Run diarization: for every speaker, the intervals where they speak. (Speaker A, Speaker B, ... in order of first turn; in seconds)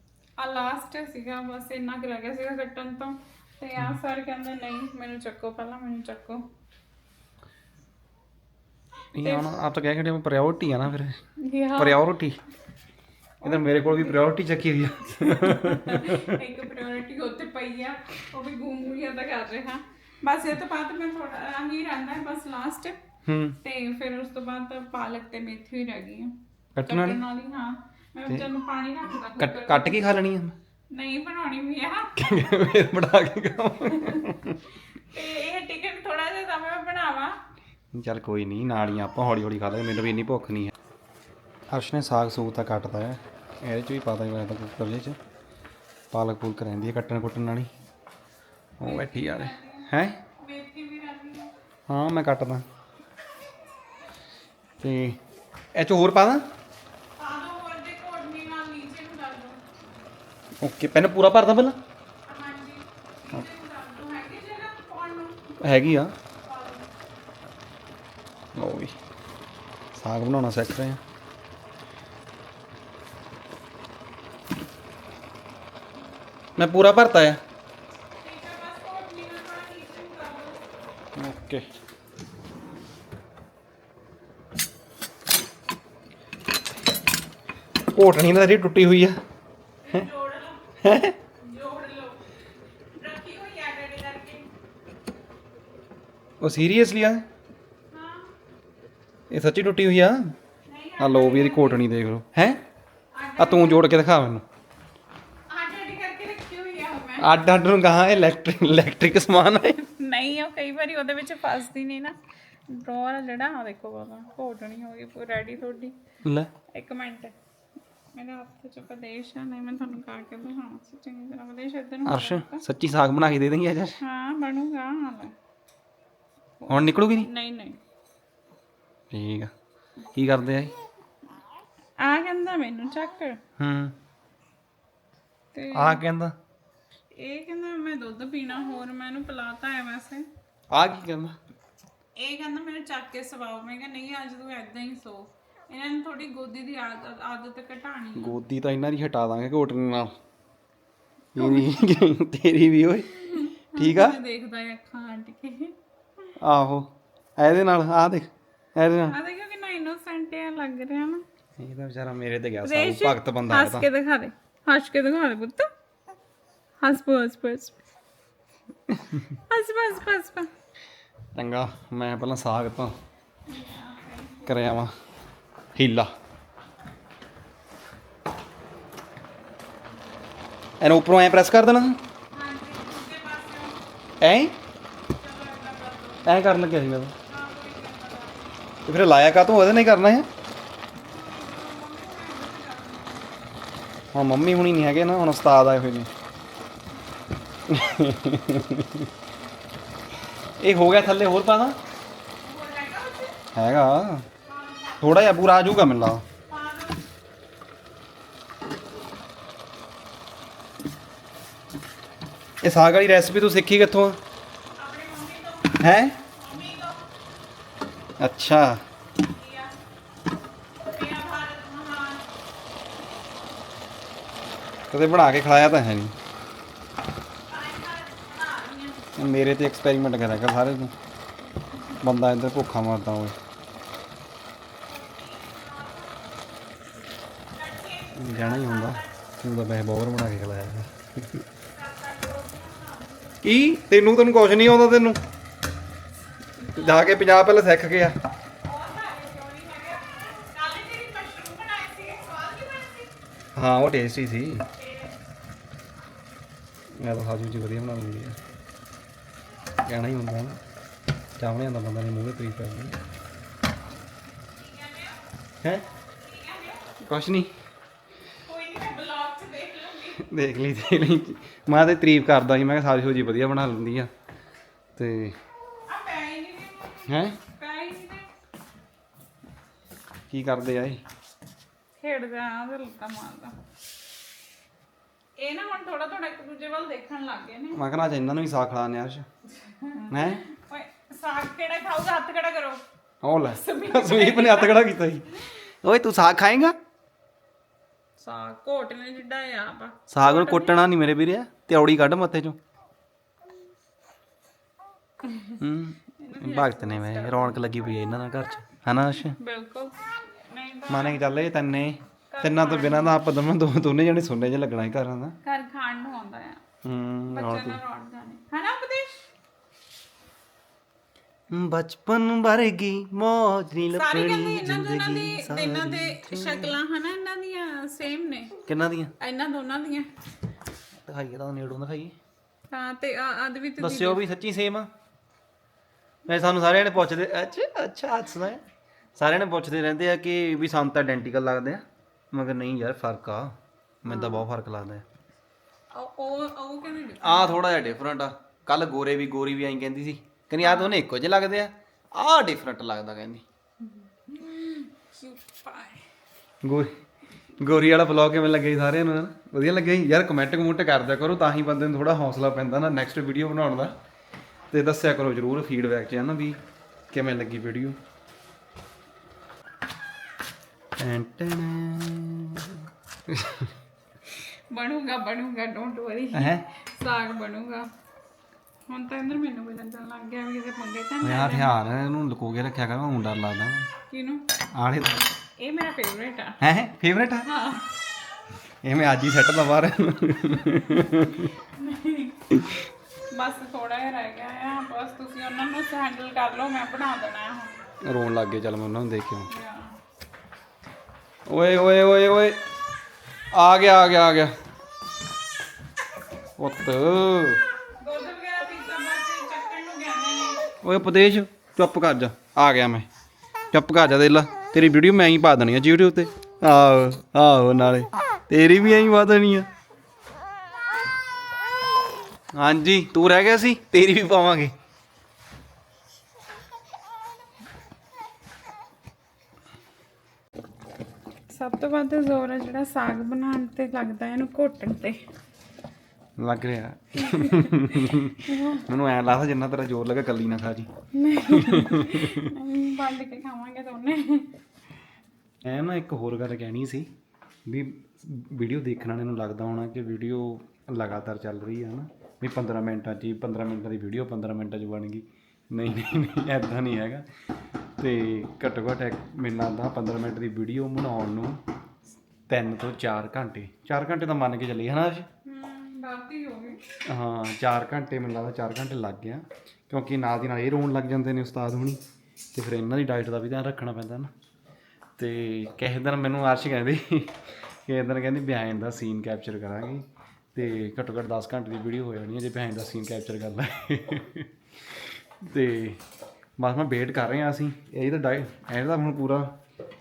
Speaker A: 0.4-6.4, 9.2-9.5, 11.4-12.0, 13.4-14.2, 15.2-23.0, 23.6-26.3, 26.9-30.0, 30.9-33.0, 33.9-34.3, 35.0-37.3, 48.8-51.5, 57.2-59.6, 62.3-65.4, 66.4-66.9, 78.2-80.6, 89.8-90.7, 91.4-92.2, 92.9-94.5, 97.9-98.3, 100.7-101.8, 103.1-103.8, 105.5-107.3, 109.8-112.2, 112.7-115.9, 116.7-117.3, 118.1-122.6, 124.0-125.3, 126.6-127.8, 132.0-133.4, 135.5-136.0, 137.1-140.3, 142.2-148.3, 151.3-152.0, 153.1-155.7, 159.1-161.2, 162.6-165.7, 166.8-167.8, 169.5-170.5, 173.5-174.5, 182.3-183.8, 185.1-186.4, 187.2-188.6, 191.0-193.3, 202.4-203.4, 204.5-205.2, 206.5-207.0, 214.8-217.1, 219.2-219.7, 220.9-222.2, 227.5-229.2, 234.8-236.2, 237.5-239.1, 241.7-243.4, 246.6-247.1, 248.6-253.1, 254.8-255.1, 264.5-265.2, 266.1-266.9, 268.4-270.2, 275.9-278.3, 282.0-283.5, 285.4-287.8, 289.6-292.8, 293.5-294.8, 298.2-300.8, 305.2-305.6, 306.2-308.1, 309.2-311.2, 312.3-313.2, 315.4-316.6, 317.3-319.3, 323.9-328.5, 329.2-330.1, 332.7-334.2, 344.1-344.4, 345.9-347.6, 350.6-350.9, 353.8-356.0, 374.3-377.9, 378.9-381.7, 384.1-384.5, 385.6-386.6, 387.4-387.9, 391.5-392.5, 393.3-397.7, 399.5-399.9, 408.0-410.6, 431.5-435.2, 437.2-438.8, 441.1-444.5, 465.4-466.8
Speaker B: 9.1-11.2, 11.8-12.4, 13.4-16.4, 23.2-23.6, 26.7-27.2, 29.4-30.6, 32.1-34.6, 37.9-40.7, 41.7-45.2, 46.1-47.7, 48.8-50.2, 51.9-52.6, 54.8-55.2, 55.7-56.4, 60.6-61.8, 65.6-66.1, 68.5-68.9, 69.9-71.0, 76.6-77.4, 81.2-81.6, 87.9-89.2, 90.8-91.2, 96.4-97.2, 99.3-100.3, 101.0-102.6, 103.4-104.4, 107.2-109.8, 116.2-116.5, 122.0-124.0, 126.7-127.3, 129.1-129.5, 130.1-130.7, 133.6-133.9, 135.7-136.3, 140.7-141.3, 148.2-150.1, 151.3-154.2, 156.4-159.2, 161.6-163.9, 168.9-169.2, 171.3-172.9, 174.4-174.9, 175.8-176.1, 180.8-182.0, 184.2-184.5, 186.2-187.1, 188.8-190.3, 194.1-196.1, 197.7-199.1, 200.6-201.8, 203.5-204.3, 205.0-206.2, 212.6-214.2, 215.8-216.2, 218.2-218.8, 224.9-226.1, 229.2-230.9, 232.0-233.3, 238.2-241.4, 243.4-245.2, 246.7-248.2, 253.6-254.6, 257.0-258.4, 259.8-260.6, 261.4-263.0, 267.0-267.5, 270.2-274.1, 274.9-275.4, 277.1-277.4, 280.3-281.0, 287.7-289.3, 290.1-290.4, 293.2-295.3, 295.8-296.8, 300.1-302.6, 305.6-309.4, 310.9-315.4, 316.8-317.8, 321.5-326.8, 328.7-329.1, 330.9-332.1, 333.8-334.9, 336.3-338.6, 339.1-345.0, 347.2-353.4, 356.6-356.9, 357.6-363.9, 364.7-366.6, 367.1-368.0, 371.0-373.7, 376.3-376.7, 381.2-383.9, 384.7-385.2, 386.6-387.5, 388.8-391.5, 392.5-392.8, 398.0-399.5, 401.5-402.6, 403.5-404.5, 406.6-407.6, 410.8-413.1, 413.7-419.7, 422.6-424.7, 436.4-440.9, 441.5-442.5, 445.6-447.1, 447.6-457.2, 458.0-461.6, 462.5-465.3, 467.1-472.0, 472.5-474.3, 475.2-484.5, 485.4-486.0, 486.6-489.5